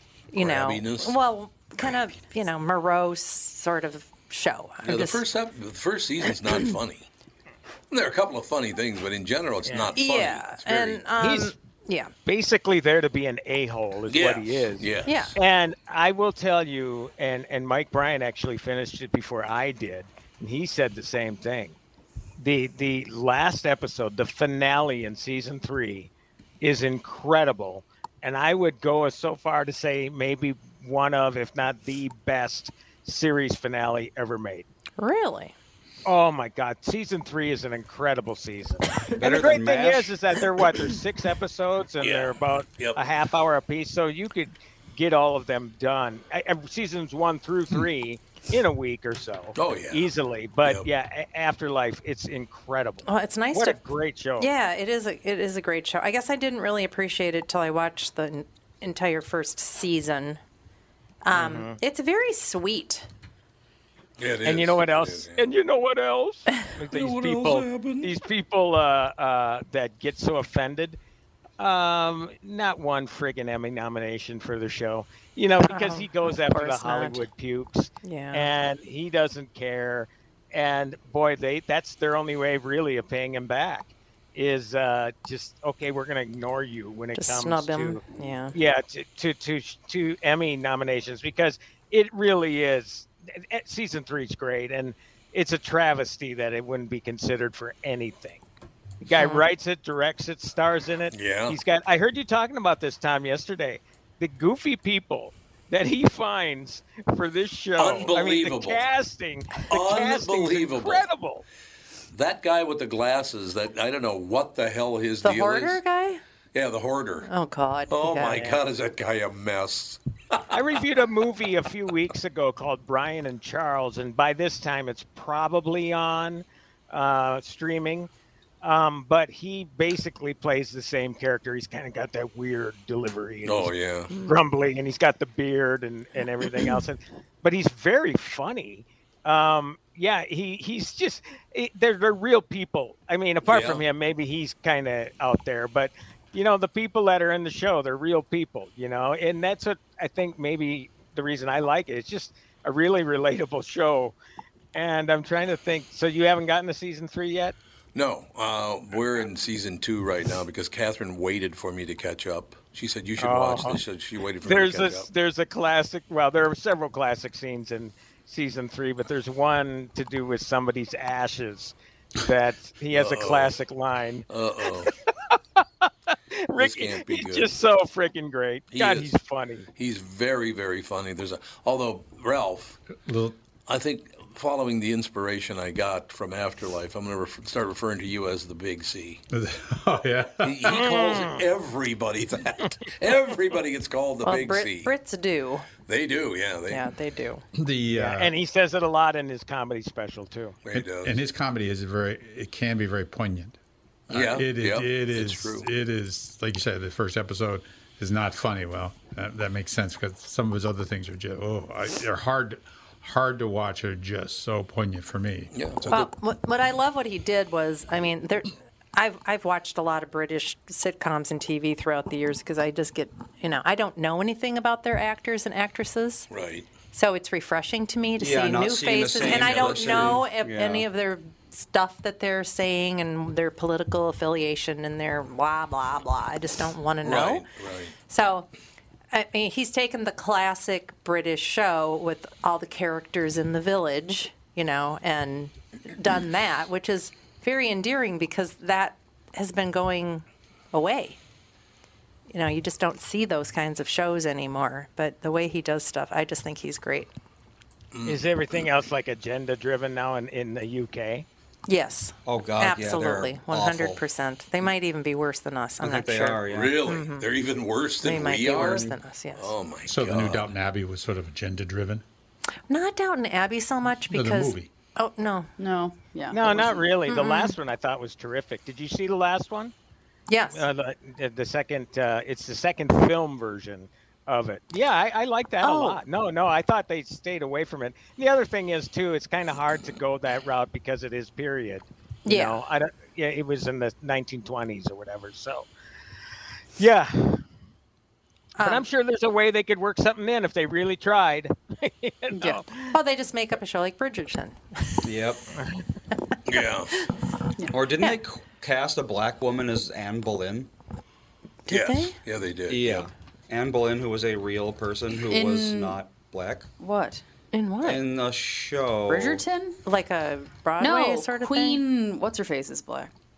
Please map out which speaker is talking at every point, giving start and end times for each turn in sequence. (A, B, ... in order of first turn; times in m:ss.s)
0:00.3-0:05.2 A
0:00.4-0:01.2 B
0:04.8-0:07.1 B
0:07.9-0:11.0 B
0:09.9-0:12.1 A
0:11.2-0:11.5 C
0:12.2-0:21.8 C
0:14.1-0:15.4 B
0:15.0-0:15.4 A
0:22.4-0:26.1 C
0:26.6-0:34.7 C
0:35.0-0:35.5 A
0:36.0-0:54.5 C
0:39.2-0:40.1 D
0:42.0-0:43.0 B
0:49.5-0:50.1 B
0:53.0-0:53.8 A
0:54.4-1:00.4 A
1:01.2-1:03.1 A
1:01.3-1:01.8 C
1:04.2-1:05.5 B
1:04.4-1:11.0 C
1:06.9-1:08.1 B
1:11.6-1:38.4 C
1:15.7-1:17.3 A
1:18.0-1:18.5 A
1:27.1-1:28.6 A
1:39.0-1:51.4 C
1:39.1-1:39.4 A
1:41.1-1:41.6 B
1:47.8-1:48.8 B
1:49.7-1:51.0 B
1:52.1-1:55.8 B
1:55.2-1:56.2 A
1:56.5-1:57.3 B
1:57.3-1:58.6 A
1:57.9-2:00.5 B
2:00.5-2:08.1 C
2:08.6-2:13.7 C
2:13.4-2:14.1 B
2:14.2-2:34.1 C
2:23.4-2:23.8 B
2:34.7-2:37.5 C
2:37.9-2:45.1 B
2:43.2-2:43.8 C
2:44.4-2:55.9 C
2:52.9-2:53.6 B
2:54.3-2:54.9 B
2:56.4-2:59.7 C
2:56.6-2:57.5 B
2:58.7-2:59.1 B
2:59.8-3:02.8 B
3:03.0-3:03.4 E
3:03.7-3:09.2 B
3:09.3-3:10.8 E
3:10.4-3:14.9 B
3:10.6-3:11.4 C
3:14.2-3:15.7 A
3:15.9-3:16.8 B
3:16.7-3:17.4 A
3:17.5-3:18.3 E
3:17.9-3:20.6 C
3:20.6-3:21.2 B
3:20.7-3:23.6 E
3:24.1-3:25.7 B
3:24.1-3:35.9 E
3:35.5-3:36.1 B
3:35.9-3:46.3 A
3:46.3-3:46.7 B
3:46.9-3:57.5 A
3:48.2-3:50.9 D
3:49.1-3:50.2 B
3:57.0-3:57.9 B
3:58.0-3:58.5 A
3:59.1-4:11.2 A
4:12.3-4:17.1 A
4:17.9-4:18.6 B
4:18.1-4:21.2 C
4:21.7-4:27.3 A
4:22.2-4:24.0 D
4:25.8-4:26.8 D
4:26.5-4:30.5 B
4:28.0-4:29.5 A
4:29.9-4:32.0 E
4:32.7-4:35.5 A
4:34.1-4:34.7 E
4:35.6-4:36.8 F
4:36.3-4:39.7 C
4:37.0-4:37.6 A
4:40.3-4:40.6 A
4:40.5-4:55.7 C
4:45.6-4:46.0 A
4:52.2-4:52.6 A
4:56.8-4:57.4 C
4:58.6-4:58.8 A
4:58.6-5:02.9 C
5:02.3-5:02.6 F
5:02.8-5:05.0 A
5:05.0-5:05.4 D
5:06.4-5:06.9 B
5:07.7-5:10.7 D
5:11.7-5:12.2 A
5:11.7-5:13.1 B
5:12.7-5:16.7 D
5:15.3-5:16.0 F
5:16.8-5:17.2 F
5:17.5-5:18.0 A
5:17.8-5:19.4 D
5:19.1-5:19.8 F
5:19.8-5:21.8 A
5:20.8-5:23.1 F